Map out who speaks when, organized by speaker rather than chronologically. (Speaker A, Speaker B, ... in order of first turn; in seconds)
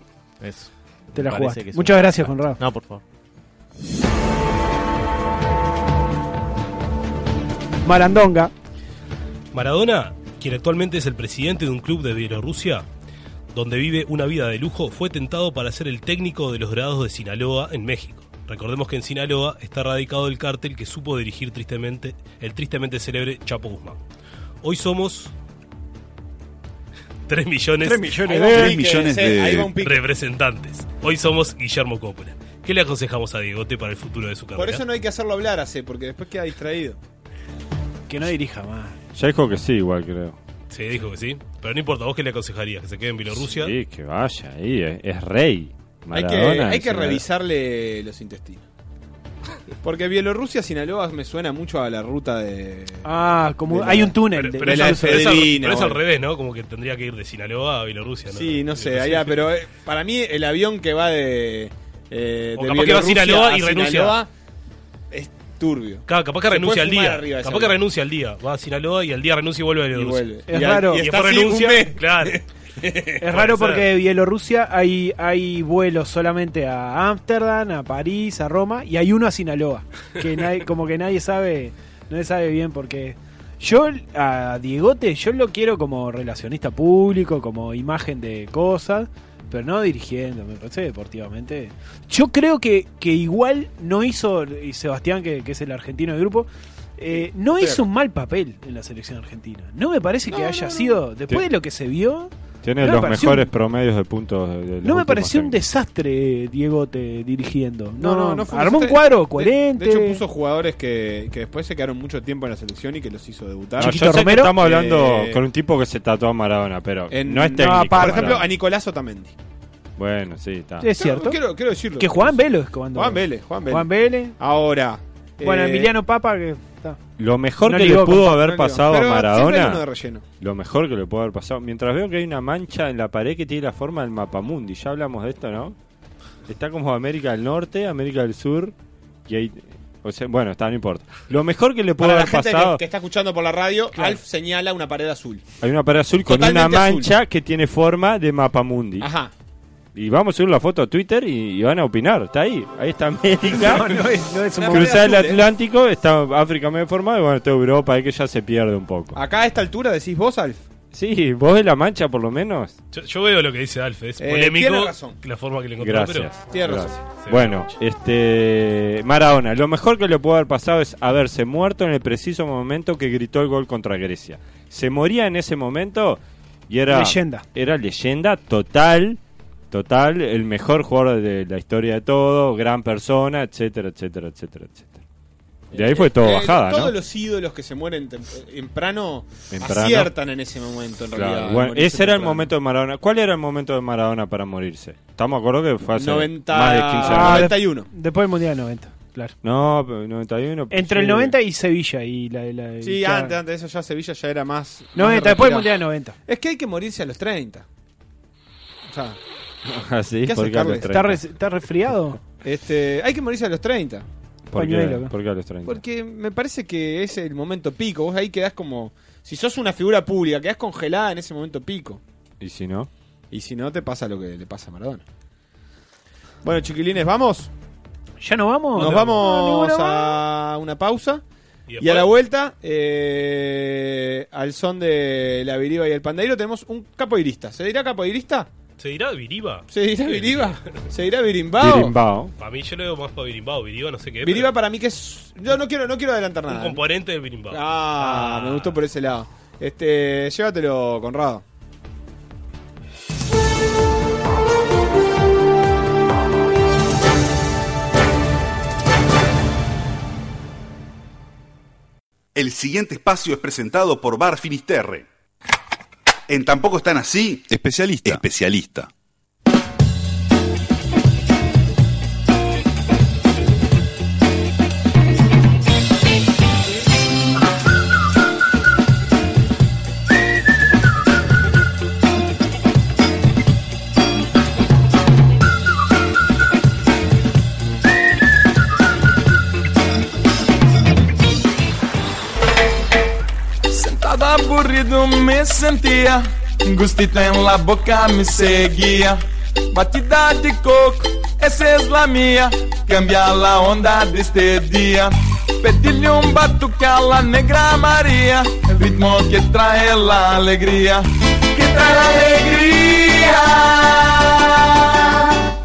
Speaker A: 0.4-3.0
Speaker B: 1.1-2.6, 7.8-8.5, 27.8-28.8, 38.1-39.0, 53.0-55.4, 70.5-71.0, 73.2-102.3, 102.8-103.5, 104.8-110.2, 113.8-114.5, 117.7-118.4, 120.8-121.4, 122.0-124.3, 125.4-127.0, 127.6-128.3, 143.9-144.2, 153.4-155.1, 176.9-177.4, 197.0-199.3, 200.7-203.4, 204.9-206.2, 210.9-212.2, 214.6-215.1, 228.2-230.2
Speaker C: 9.5-12.8, 13.5-24.0, 24.6-25.3, 27.3-28.2, 29.8-34.8, 40.7-43.7, 54.3-59.5, 62.6-64.2, 66.1-72.4, 73.3-73.9, 162.9-166.5, 167.0-167.8, 228.8-229.2, 231.7-232.1, 238.8-240.8, 242.4-244.5, 246.5-248.8
Speaker D: 28.2-30.0, 34.5-37.0, 46.1-48.6, 49.8-53.1, 53.6-56.0, 58.3-64.3, 65.1-67.8, 69.9-73.2, 97.1-97.8, 100.3-101.0, 108.0-115.4, 117.1-119.3, 120.9-125.9, 128.2-130.2, 142.0-145.4, 146.2-147.1, 149.0-149.3, 154.5-155.5, 159.1-160.6, 164.2-165.2, 166.5-167.2, 185.7-192.5, 195.9-197.9, 202.8-207.6, 208.8-209.2, 210.2-211.0, 212.4-214.1, 215.7-222.0, 223.3-225.0, 226.4-227.5, 228.7-231.2, 231.8-238.5, 239.7-242.0, 244.2-246.8, 247.5-251.4
Speaker E: 28.4-29.8, 262.3-265.1, 266.3-268.9
Speaker F: 39.1-40.4, 43.5-47.2, 102.6-105.6, 113.8-118.5, 120.0-120.9, 127.2-129.8, 130.4-135.7, 136.5-138.7, 139.3-142.8, 145.6-149.1, 149.9-154.0, 154.7-159.2, 160.9-162.7, 165.8-179.2, 179.7-185.0, 185.7-186.9, 189.5-190.1, 191.1-197.6, 199.4-201.3, 209.7-211.2, 214.5-215.8, 222.4-222.9, 241.6-242.3
Speaker G: 293.7-315.4